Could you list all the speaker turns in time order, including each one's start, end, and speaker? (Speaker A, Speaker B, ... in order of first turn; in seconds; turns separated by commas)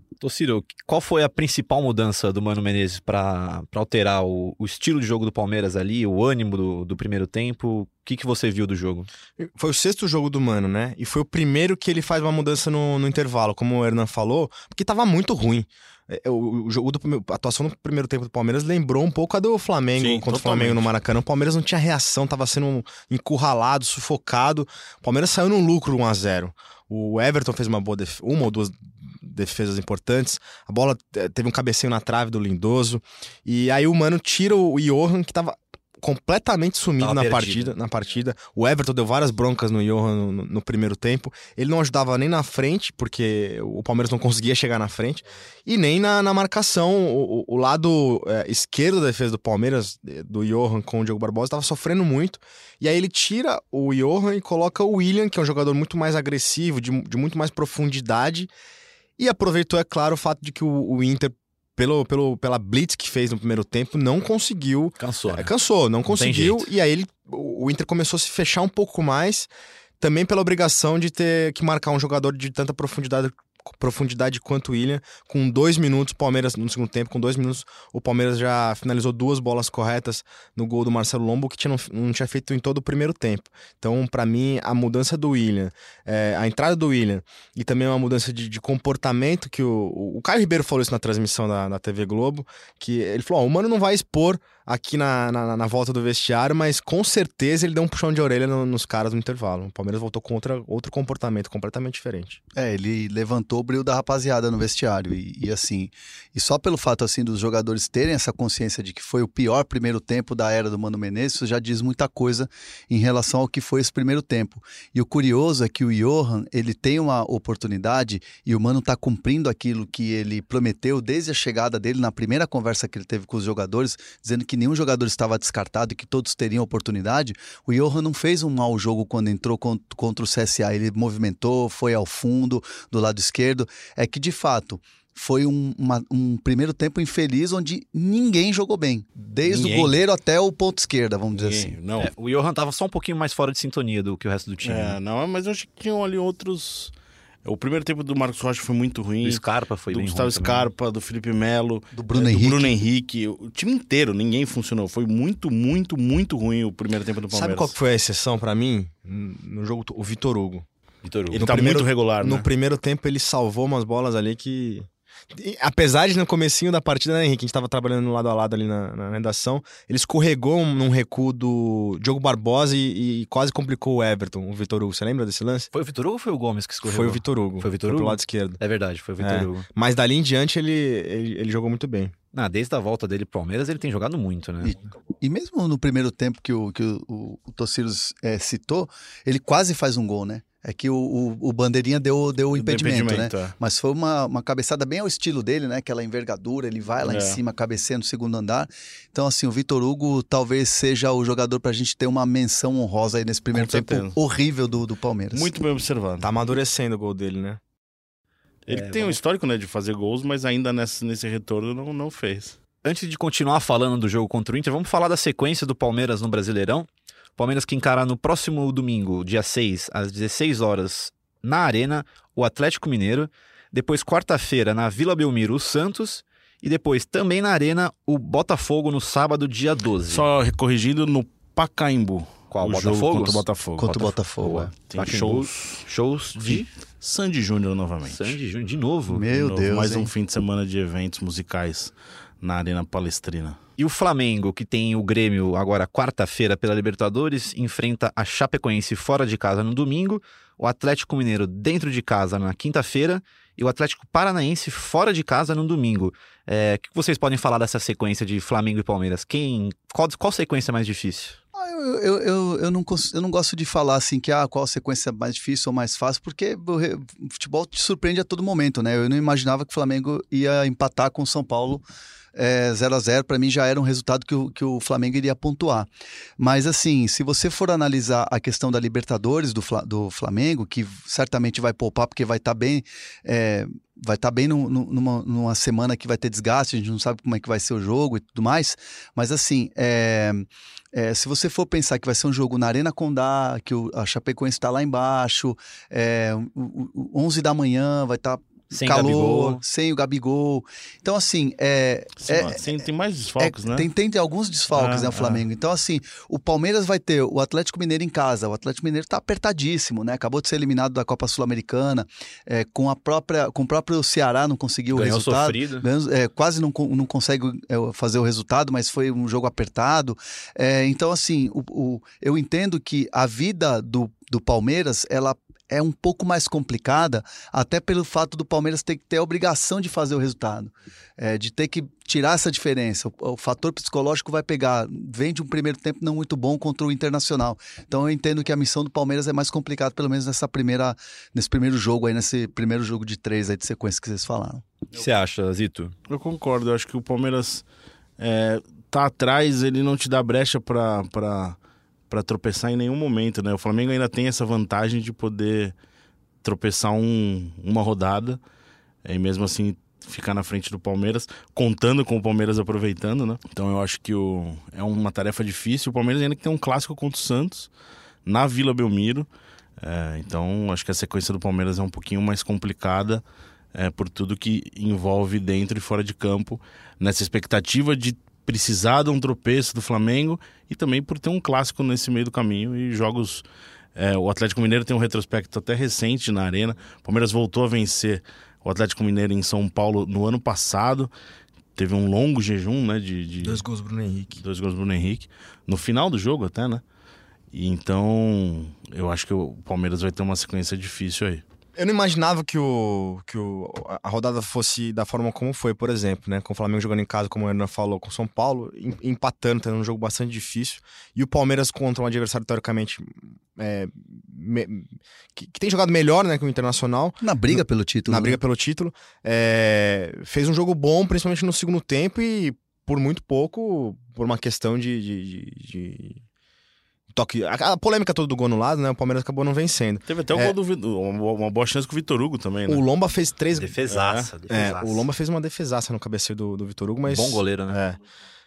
Speaker A: 0.2-9.1, Speaker B: 9.4-58.5, Speaker C: 20.0-20.9, Speaker A: 37.0-37.8, Speaker B: 59.2-69.5, Speaker A: 65.0-65.5, Speaker A: 66.1-66.7, Speaker B: 70.0-102.4, Speaker D: 102.5-141.8, Speaker A: 139.4-140.0, Speaker C: 141.3-142.1, Speaker A: 142.0-145.0, Speaker C: 144.6-146.9, Speaker C: 147.4-157.7, Speaker A: 149.2-150.7, Speaker D: 151.9-152.8, Speaker B: 157.3-160.7, Speaker A: 161.0-161.4, Speaker C: 161.3-162.5, Speaker B: 161.3-175.7, Speaker A: 175.7-179.6, Speaker B: 176.8-178.6, Speaker B: 179.2-182.1, Speaker A: 182.3-184.9, Speaker D: 184.6-205.5, Speaker C: 192.5-193.5, Speaker C: 197.0-197.4, Speaker C: 203.5-204.2, Speaker C: 205.3-206.3, Speaker B: 206.2-207.6, Speaker C: 208.7-212.6, Speaker A: 208.7-209.2, Speaker A: 212.8-230.2, Speaker C: 230.1-234.1, Speaker A: 232.5-233.4, Speaker D: 233.8-234.7, Speaker A: 234.4-236.7, Speaker C: 234.8-235.8, Speaker C: 236.4-238.4, Speaker A: 238.0-239.2, Speaker D: 239.1-240.1, Speaker C: 239.3-243.6, Speaker A: 243.8-261.4, Speaker D: 261.5-271.8, Speaker D: 272.3-302.6, Speaker A: 298.7-299.6, Speaker C: 302.2-303.9, Speaker D: 303.4-344.6, Speaker C: 304.7-305.4, Speaker A: 314.9-315.8, Speaker A: 344.9-345.9, Speaker C: 346.1-347.6, Speaker C: 348.2-351.6, Speaker C: 352.1-355.7, Speaker C: 356.4-358.4, Speaker C: 359.0-367.7, Speaker C: 368.2-369.3, Speaker C: 369.8-373.2, Speaker C: 373.7-383.4, Speaker C: 384.0-391.1, Speaker C: 391.8-393.6, Speaker B: 393.4-394.4, Speaker C: 394.4-396.8, Speaker C: 397.5-401.4, Speaker B: 401.8-426.2, Speaker D: 417.2-418.4, Speaker B: 427.1-430.5, Speaker C: 430.1-432.8, Speaker B: 432.7-433.8, Speaker A: 433.5-435.1, Speaker C: 433.9-434.3, Speaker B: 434.5-438.0, Speaker A: 437.1-437.8